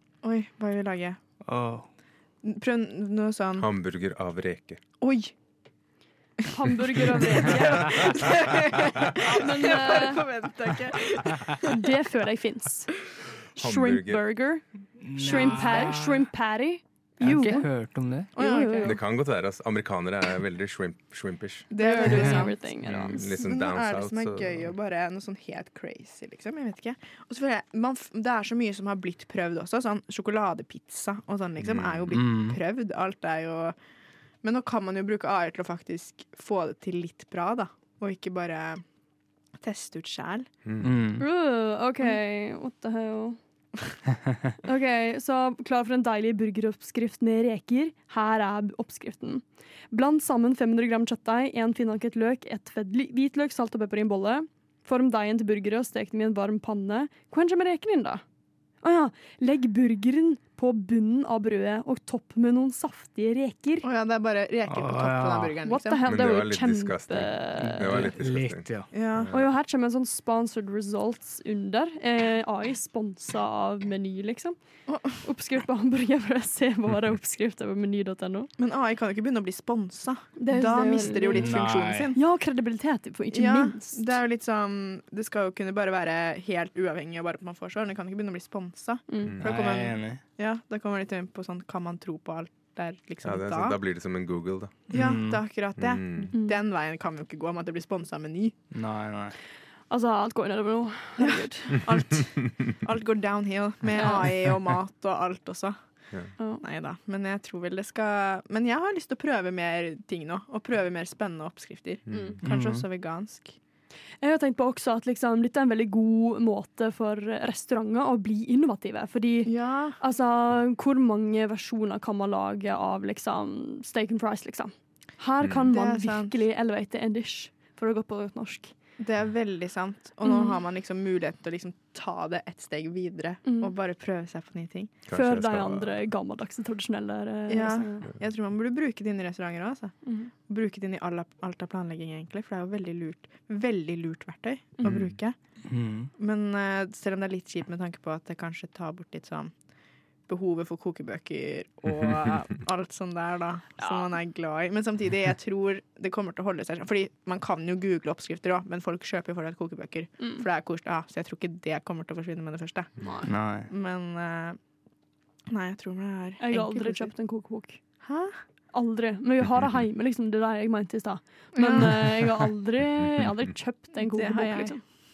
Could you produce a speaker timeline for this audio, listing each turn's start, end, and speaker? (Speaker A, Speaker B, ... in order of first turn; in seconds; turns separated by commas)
Speaker A: 0.2-1.2, Speaker B: 1.4-1.9, Speaker A: 2.4-3.7, Speaker C: 3.6-4.8, Speaker A: 5.0-5.3, Speaker D: 6.4-8.4, Speaker A: 7.3-11.8, Speaker D: 9.1-10.3, Speaker D: 11.6-12.9, Speaker D: 13.5-17.7, Speaker C: 13.6-14.2, Speaker B: 15.0-16.3, Speaker B: 17.2-18.3, Speaker D: 18.3-19.0, Speaker A: 18.4-19.0, Speaker C: 18.8-21.7, Speaker A: 21.7-33.8, Speaker D: 21.8-23.5, Speaker B: 22.1-22.4, Speaker C: 22.8-24.7, Speaker C: 31.6-32.1, Speaker B: 32.1-32.6, Speaker A: 34.4-38.8, Speaker A: 39.6-40.5, Speaker C: 40.6-40.9, Speaker B: 40.8-41.2, Speaker D: 41.2-43.4, Speaker D: 44.6-58.2, Speaker D: 58.8-63.9, Speaker A: 63.8-66.0, Speaker B: 64.7-65.5, Speaker D: 65.6-68.1, Speaker C: 66.0-69.5, Speaker B: 67.6-68.9, Speaker A: 68.9-69.3, Speaker D: 69.3-78.5, Speaker A: 74.9-75.2, Speaker A: 78.6-82.2, Speaker D: 80.4-84.0, Speaker B: 81.3-82.1, Speaker A: 83.3-93.8, Speaker D: 89.1-89.4, Speaker B: 89.4-90.2, Speaker C: 93.2-94.9, Speaker A: 94.9-98.5, Speaker B: 94.9-95.4, Speaker C: 95.8-96.3, Speaker B: 98.7-99.3, Speaker D: 99.9-101.8, Speaker A: 101.2-105.8, Speaker D: 103.9-104.2, Speaker D: 106.4-106.6, Speaker A: 106.6-113.5, Speaker C: 112.1-112.4, Speaker D: 112.1-112.4, Speaker B: 112.4-112.8, Speaker D: 114.2-128.7, Speaker A: 119.5-120.0, Speaker C: 125.4-125.7, Speaker A: 125.7-126.3, Speaker A: 129.0-134.9, Speaker D: 130.2-130.6, Speaker D: 133.4-133.7, Speaker C: 135.1-136.0, Speaker D: 135.1-138.1, Speaker A: 137.5-145.3, Speaker D: 140.0-140.3, Speaker C: 144.8-145.1, Speaker B: 145.7-146.1, Speaker A: 146.2-149.5, Speaker A: 150.3-162.9, Speaker D: 153.8-154.1, Speaker D: 160.2-160.4, Speaker D: 163.0-163.3, Speaker B: 163.2-163.7, Speaker A: 163.7-164.6, Speaker A: 165.5-167.1, Speaker D: 166.4-167.8, Speaker A: 168.0-168.3, Speaker D: 168.7-174.8, Speaker A: 171.5-172.2, Speaker A: 174.0-174.8